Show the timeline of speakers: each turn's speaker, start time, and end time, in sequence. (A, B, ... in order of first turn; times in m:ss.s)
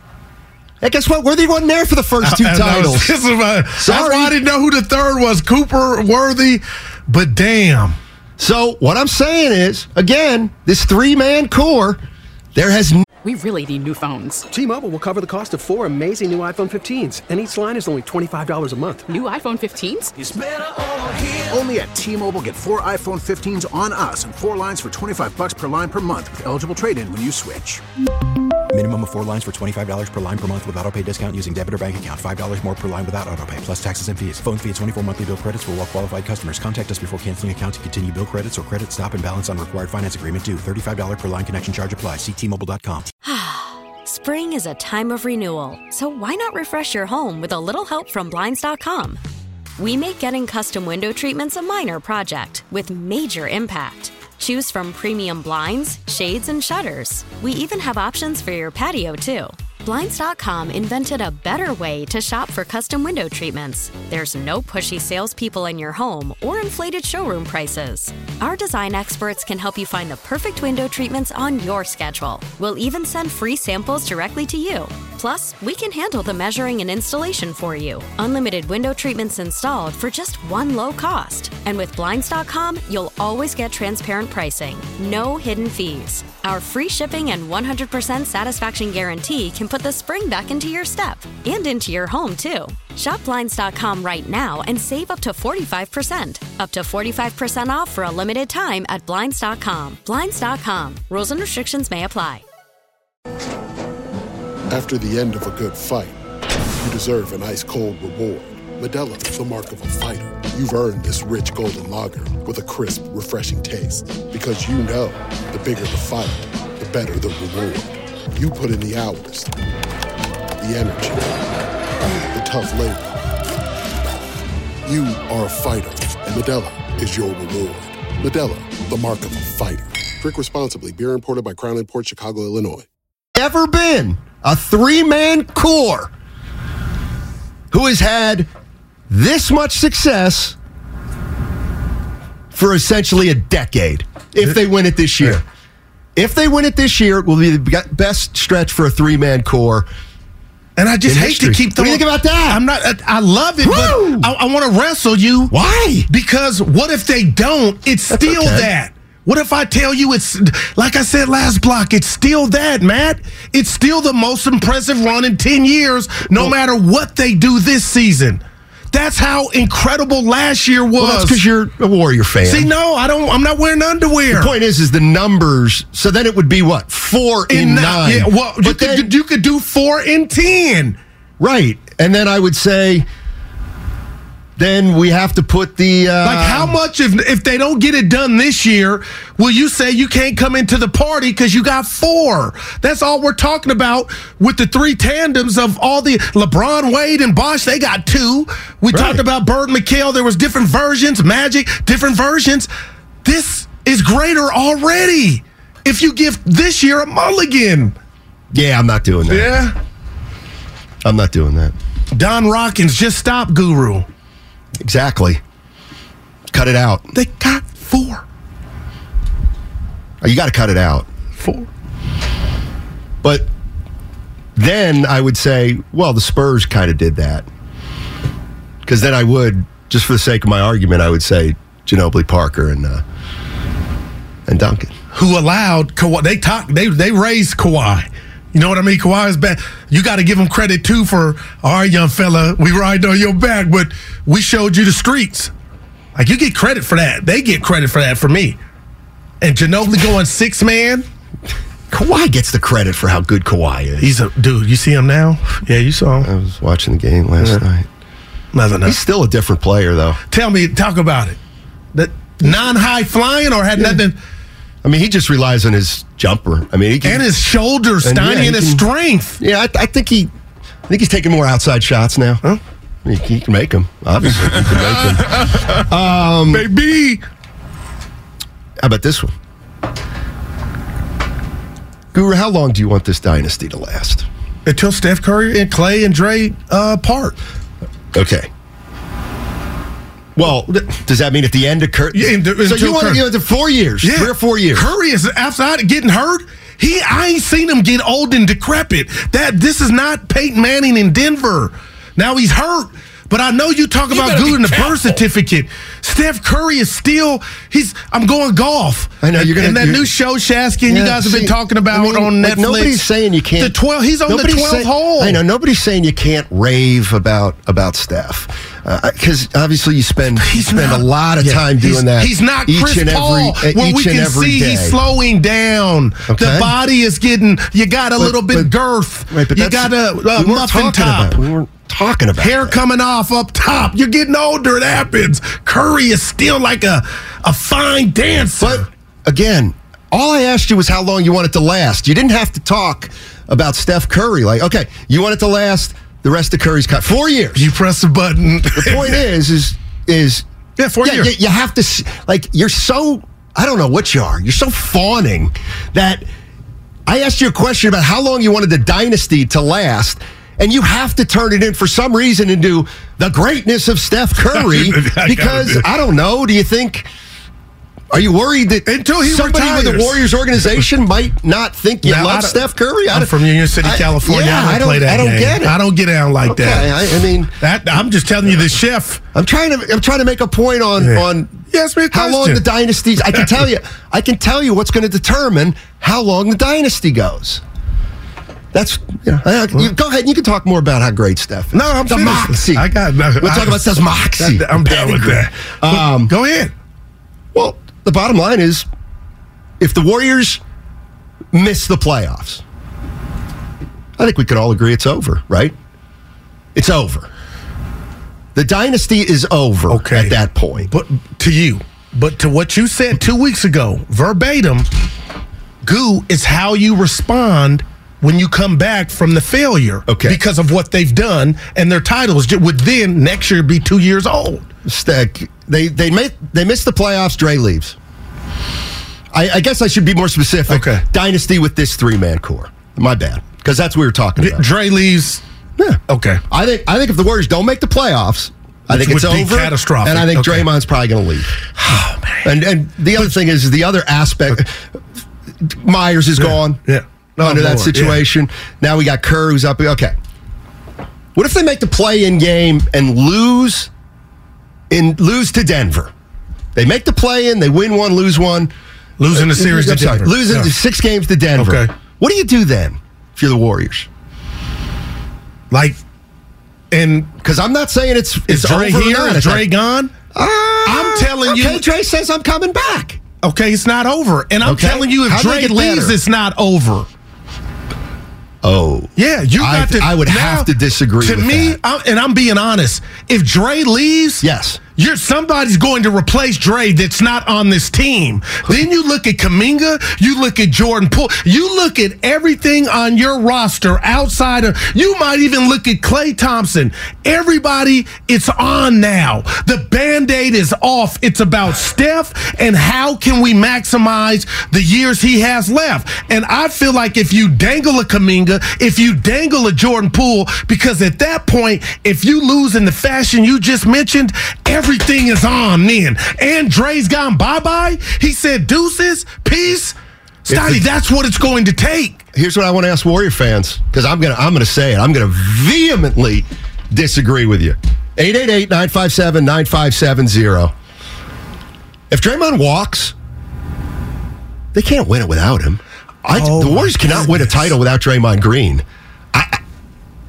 0:00.8-0:03.1 A
0:02.2-0:08.0 B
0:03.8-0:04.4 A
0:08.4-0:12.0 A
0:12.5-0:13.0 A
0:13.2-0:14.4 C
0:14.5-0:19.1 D
0:19.1-0:20.1 C
0:20.2-0:27.8 E
0:28.7-0:43.1 F
0:43.2-0:49.2 G
0:49.8-1:42.4 G
1:44.7-1:46.2 H
1:46.8-1:59.5 H
2:00.6-2:01.4 H
2:02.3-2:03.2 H
2:04.8-2:12.9 H
2:13.3-2:16.1 A
2:17.7-2:18.5 A
2:19.1-2:20.6 A
2:22.5-2:25.4 A
2:26.2-2:29.9 A
2:30.8-2:35.5 B
2:31.0-2:32.6 A
2:33.6-2:34.3 A
2:35.5-2:36.0 A
2:36.1-2:48.4 B
2:38.1-2:38.7 A
2:48.9-2:51.4 B
2:51.0-2:52.7 A
2:52.4-2:54.5 B
2:54.3-2:59.1 A
2:57.5-3:01.0 B
3:01.4-3:03.1 A
3:04.6-3:06.7 A
3:06.2-3:22.7 B
3:18.9-3:19.2 A
3:23.2-3:27.9 B
3:28.5-3:29.5 A
3:29.3-3:29.7 B
3:31.0-3:31.7 A
3:32.1-3:34.0 B
3:34.8-3:35.4 A
3:36.5-3:37.1 A
3:37.1-3:38.2 B
3:40.2-3:41.1 A
3:41.4-3:41.7 B
3:43.2-3:43.5 A
3:44.6-3:47.5 A
3:48.8-3:53.0 A
3:54.5-3:54.9 A
3:55.1-4:05.5 B
4:06.1-4:08.6 B
4:09.4-4:11.0 B
4:11.9-4:14.1 A
4:14.0-4:16.3 B
4:16.2-4:17.9 A
4:18.5-4:19.0 B
4:18.8-4:20.2 A
4:20.3-4:21.4 B
4:21.9-4:24.2 B
4:23.8-4:24.0 A
4:24.8-4:27.3 A
4:27.0-4:29.4 B
4:28.0-4:28.8 A
4:29.4-4:30.3 A
4:30.9-4:32.4 A
4:33.0-4:36.7 A
4:34.7-4:35.8 B
4:36.5-4:37.2 B
4:38.8-4:39.3 A
4:42.1-4:44.3 A
4:44.6-4:47.4 B
4:48.1-4:48.5 A
4:50.4-4:54.9 A
4:52.1-4:53.2 B
4:54.0-5:13.0 B
5:04.1-5:04.9 A
5:09.2-5:10.1 A
5:10.9-5:13.7 A
5:13.6-5:15.4 B
5:14.3-5:25.0 A
5:20.4-5:31.4 B
5:26.3-5:26.7 A
5:28.2-5:28.7 A
5:29.3-5:32.8 A
5:32.4-5:38.9 B
5:38.6-5:47.7 A
5:47.6-5:49.2 B
5:48.8-5:50.4 A
5:50.8-5:51.3 B
5:51.0-5:56.2 A
5:57.0-6:07.1 A
6:04.5-6:05.8 B
6:08.1-6:15.8 A
6:08.9-6:10.2 B
6:12.0-6:17.0 B
6:16.4-6:17.6 A
6:17.6-6:19.2 B
6:19.3-6:27.6 A
6:21.0-6:22.6 B
6:28.7-6:36.3 A
6:31.7-6:33.8 B
6:34.4-6:36.7 B
6:37.5-6:38.9 A
6:39.8-6:40.6 A
6:41.5-6:42.6 A
6:44.2-6:45.7 A
6:46.7-6:47.3 A
6:48.5-6:50.9 A
6:49.9-6:50.4 B
6:50.9-6:54.8 B
6:55.8-7:04.6 B
7:00.1-7:00.4 A
7:04.8-7:08.0 A
7:09.3-7:14.6 A
7:10.7-7:11.0 B
7:14.4-7:15.4 B
7:15.8-7:24.8 A
7:16.1-7:16.4 B
7:18.9-7:20.7 B
7:21.8-7:22.4 B
7:25.6-7:26.8 A
7:26.4-7:28.2 B
7:27.4-7:30.1 A
7:31.3-7:33.9 A
7:34.9-7:36.1 A
7:36.7-7:38.7 A
7:39.2-7:40.7 B
7:39.3-7:44.1 A
7:41.6-7:41.9 B
7:45.7-7:46.0 B
7:46.9-7:47.3 B
7:47.4-7:49.7 A
7:48.5-7:50.1 B
7:50.3-7:53.2 A
7:50.8-7:51.8 B
7:53.4-7:57.1 B
7:54.6-7:56.2 A
7:58.6-8:01.8 A
7:59.2-8:04.4 B
8:04.4-8:04.8 A
8:05.0-8:42.2 B
8:40.5-8:40.8 A
8:42.3-8:50.7 A
8:52.1-8:53.1 A
8:54.7-8:59.6 A
8:56.3-8:57.7 B